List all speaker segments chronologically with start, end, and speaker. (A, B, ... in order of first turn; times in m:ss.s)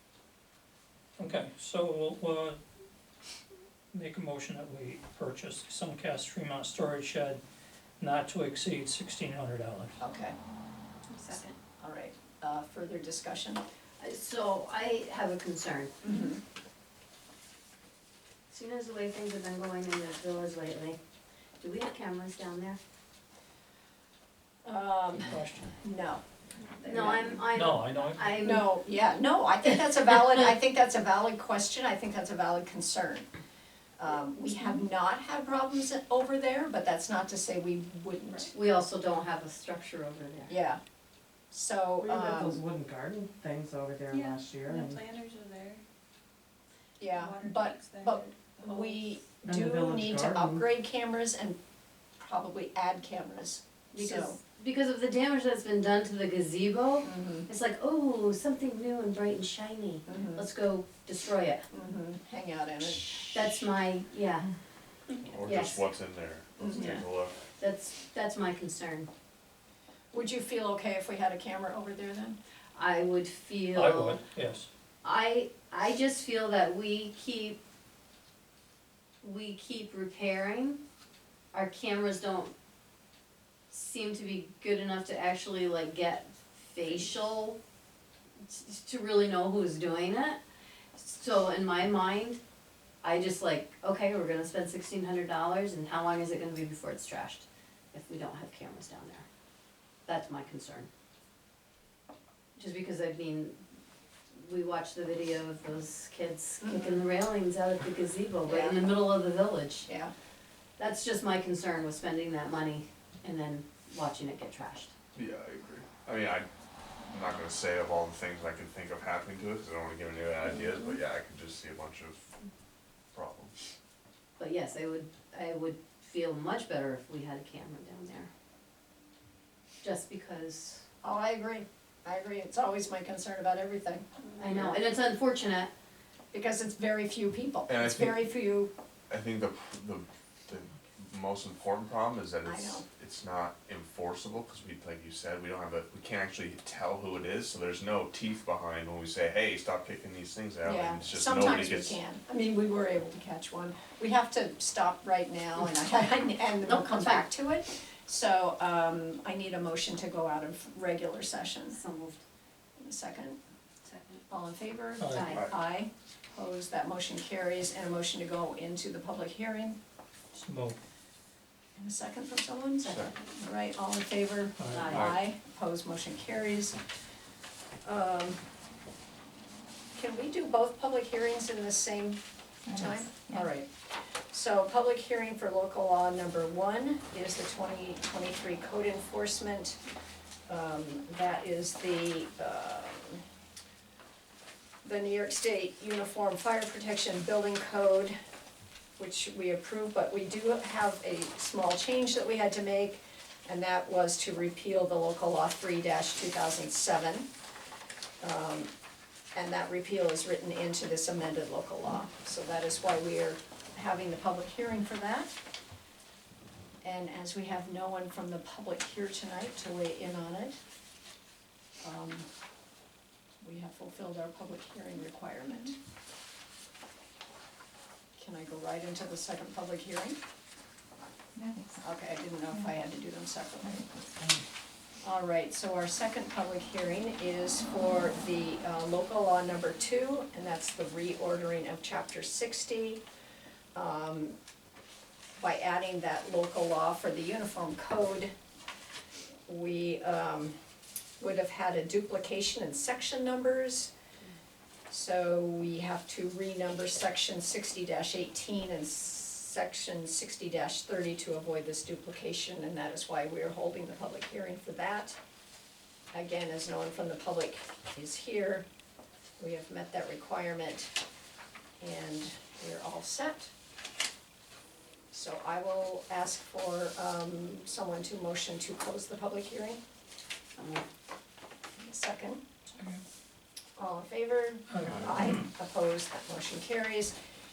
0:01.2-0:02.6 A
0:03.9-0:07.4 A
0:08.0-0:10.0 A
0:10.0-0:10.4 B
0:11.1-0:11.6 C
0:11.3-0:13.6 B
0:14.0-0:15.9 D
0:16.0-0:16.4 B
0:18.5-0:21.0 D
0:21.6-0:22.8 D
0:24.6-0:26.2 B
0:26.8-0:27.4 B
0:26.8-0:28.7 D
0:27.5-0:28.6 A
0:28.4-0:33.3 B
0:34.0-0:38.5 B
0:38.5-0:40.5 D
0:40.5-0:40.8 B
0:41.5-0:42.6 B
0:42.0-0:45.0 E
0:44.1-0:45.8 C
0:47.0-0:51.6 B
0:47.0-0:49.1 C
0:49.4-0:50.7 E
0:52.2-0:54.4 B
0:53.9-1:01.6 D
0:57.0-0:57.5 B
1:00.0-1:00.4 B
1:01.7-1:03.1 B
1:03.3-1:04.5 D
1:05.2-1:07.3 F
1:05.4-1:05.8 D
1:06.6-1:07.0 B
1:07.6-1:09.1 D
1:10.1-1:12.4 B
1:12.7-1:14.2 D
1:13.7-1:14.7 A
1:15.0-1:17.6 D
1:19.2-1:20.8 D
1:21.5-1:22.5 D
1:23.7-1:27.6 D
1:28.4-1:30.4 D
1:31.0-1:32.4 D
1:33.0-1:39.2 D
1:40.0-1:40.9 D
1:42.6-1:43.6 D
1:44.3-1:49.9 D
1:46.6-1:46.9 B
1:48.4-1:48.9 B
1:49.9-1:50.1 B
1:50.8-1:54.9 D
1:55.1-1:56.5 F
1:57.1-2:02.4 F
2:00.6-2:01.0 D
2:03.1-2:03.5 F
2:04.4-2:08.3 D
2:09.8-2:10.8 D
2:11.0-2:14.0 B
2:14.3-2:14.7 C
2:14.4-2:15.7 D
2:16.3-2:18.7 B
2:17.7-2:18.2 F
2:19.1-2:32.0 F
2:22.4-2:22.8 B
2:30.6-2:41.8 B
2:36.6-2:37.3 D
2:41.7-2:42.2 D
2:42.8-2:43.4 B
2:43.9-2:44.2 D
2:44.3-2:49.8 B
2:45.0-2:45.4 A
2:45.1-2:45.4 D
2:50.3-2:50.8 A
2:51.8-2:56.8 B
2:52.8-2:53.1 F
2:54.6-2:55.0 A
2:54.7-2:55.1 D
2:54.9-2:55.2 F
2:57.8-2:58.4 B
3:00.0-3:03.7 B
3:02.7-3:03.4 E
3:04.3-3:09.8 B
3:10.5-3:13.2 B
3:14.8-3:18.1 B
3:19.0-3:27.3 B
3:28.2-3:28.7 B
3:29.3-3:35.3 B
3:36.8-3:40.6 B
3:41.8-3:42.3 B
3:43.4-3:45.8 B
3:48.2-3:50.2 B
3:51.4-3:51.8 E
3:51.8-3:53.9 B
3:55.0-4:03.0 B
4:03.7-4:04.4 B
4:05.4-4:08.3 B
4:09.5-4:10.6 B
4:11.2-4:13.9 B
4:14.9-4:25.2 B
4:26.1-4:28.6 B
4:29.4-4:30.9 B
4:31.8-4:33.5 B
4:35.1-4:39.8 B
4:40.6-4:40.8 D
4:41.8-4:42.4 B
4:43.8-4:47.1 B
4:44.7-4:45.4 A